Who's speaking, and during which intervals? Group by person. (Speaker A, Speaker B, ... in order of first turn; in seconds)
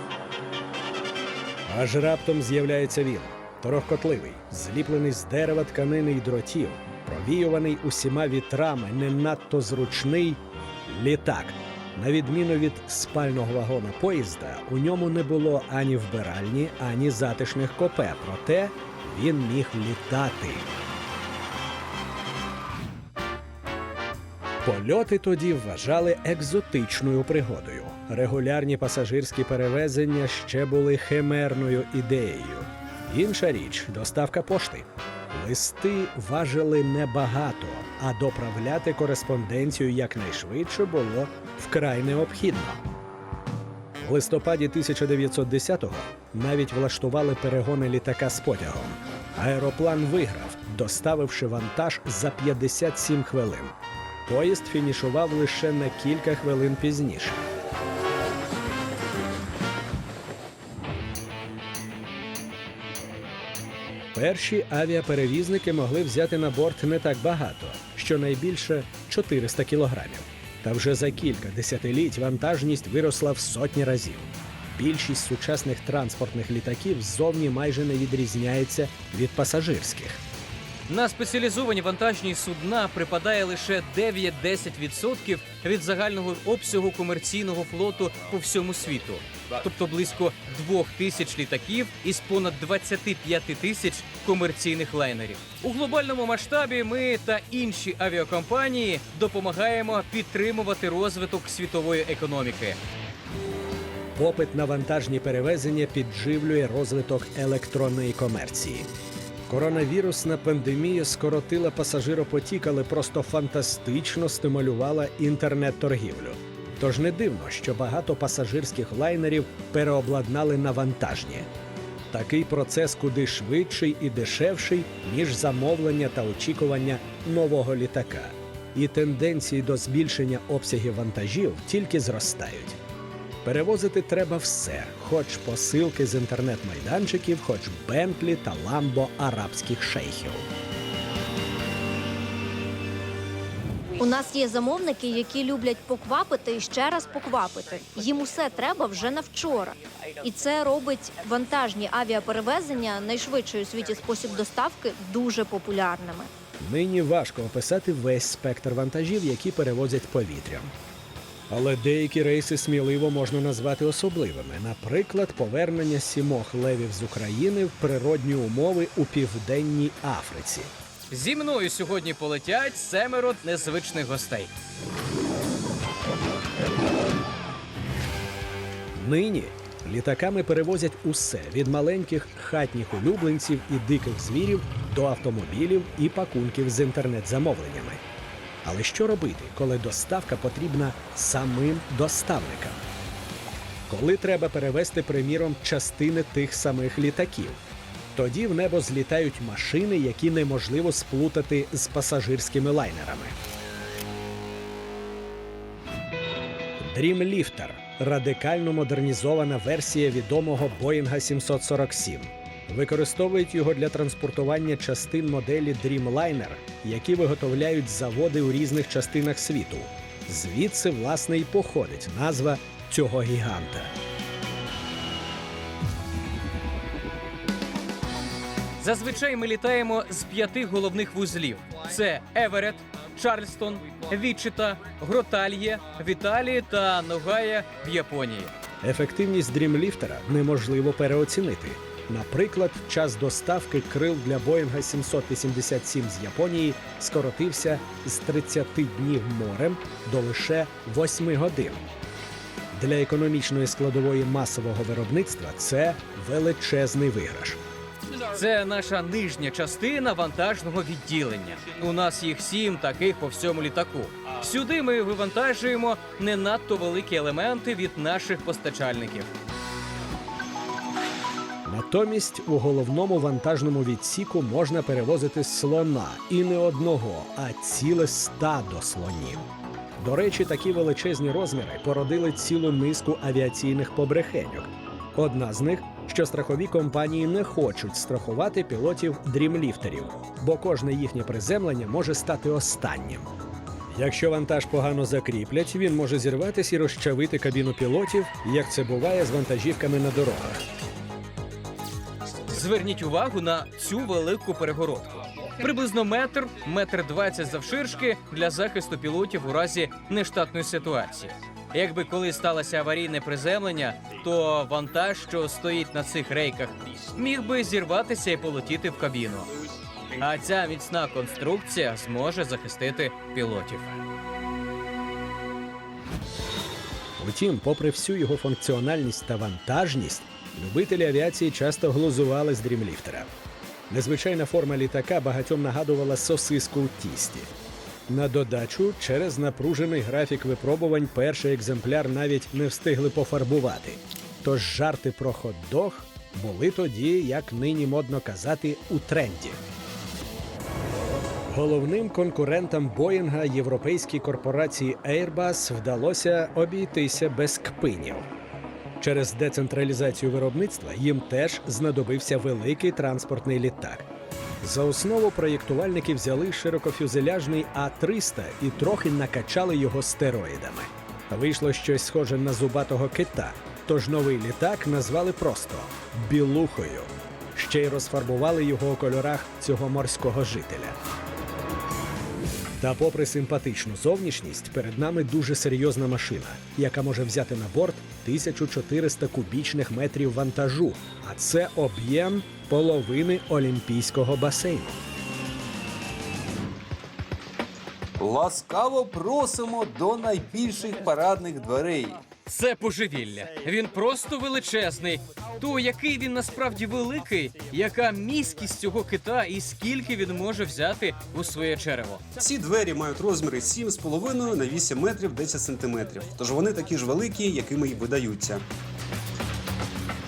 Speaker A: 1.7-20.7, 24.6-42.8, 44.0-53.8, 54.3-57.4, 64.2-80.2, 104.2-108.9, 109.5-121.5, 122.1-132.8, 133.4-140.5, 156.6-160.7, 161.5-170.7, 179.0-188.0, 188.6-192.8, 193.9-197.6, 198.2-203.4, 206.8-223.9, 238.8-251.8, 252.7-257.6, 271.7-279.5, 280.0-293.3, 293.9-300.6, 327.2-333.3, 333.9-337.5, 338.1-349.6, 351.5-358.3, 359.0-364.1, 364.6-381.0, 382.8-395.0
Speaker B: 80.9-102.8, 171.1-174.5, 228.8-238.5, 258.2-269.3, 302.5-319.5, 320.1-324.0, 402.5-412.2
Speaker C: 144.0-156.3
Speaker D: 398.2-402.2, 412.4-418.6